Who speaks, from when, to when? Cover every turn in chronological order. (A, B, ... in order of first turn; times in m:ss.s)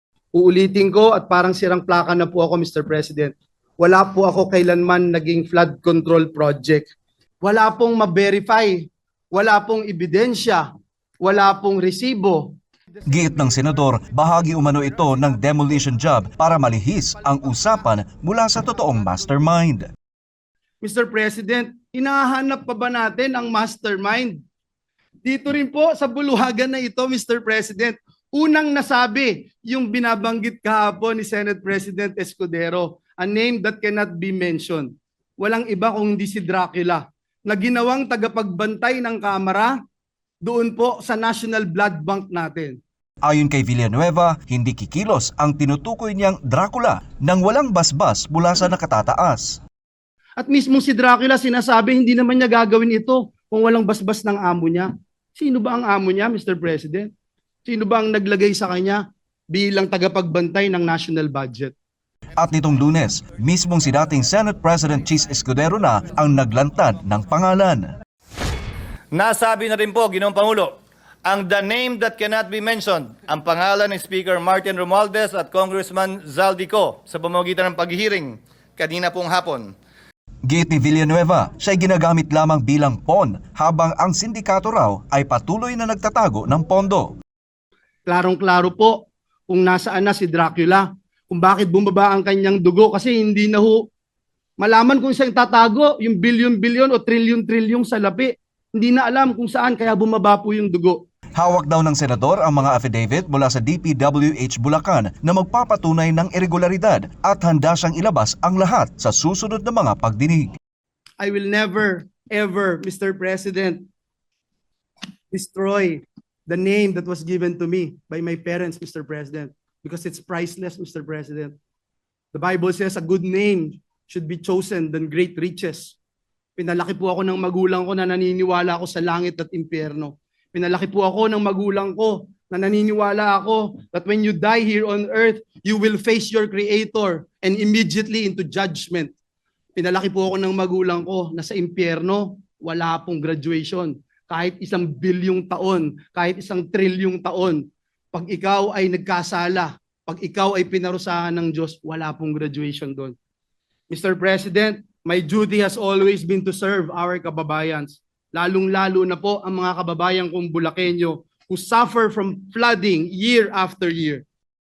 0:00.3-0:06.9 A
0:07.4-0:10.7 A
0:11.2-0:12.5 A
0:13.1-0:19.9 B
0:20.8-0:24.4 A
0:25.2-0:34.9 A
0:35.4-0:39.7 A
0:40.4-0:42.8 A
0:43.2-0:49.6 B
0:50.4-0:57.1 A
0:57.6-1:01.7 A
1:02.4-1:07.9 B
1:09.1-1:10.7 C
1:11.2-1:19.7 C
1:20.5-1:27.1 B
1:28.1-1:33.9 A
1:34.6-1:41.0 A
1:41.4-1:50.5 B
1:51.2-1:53.8 A
1:55.3-2:01.5 A
2:02.3-2:05.9 A
2:06.6-2:19.1 A
2:19.8-2:33.1 A
2:33.9-2:44.2 A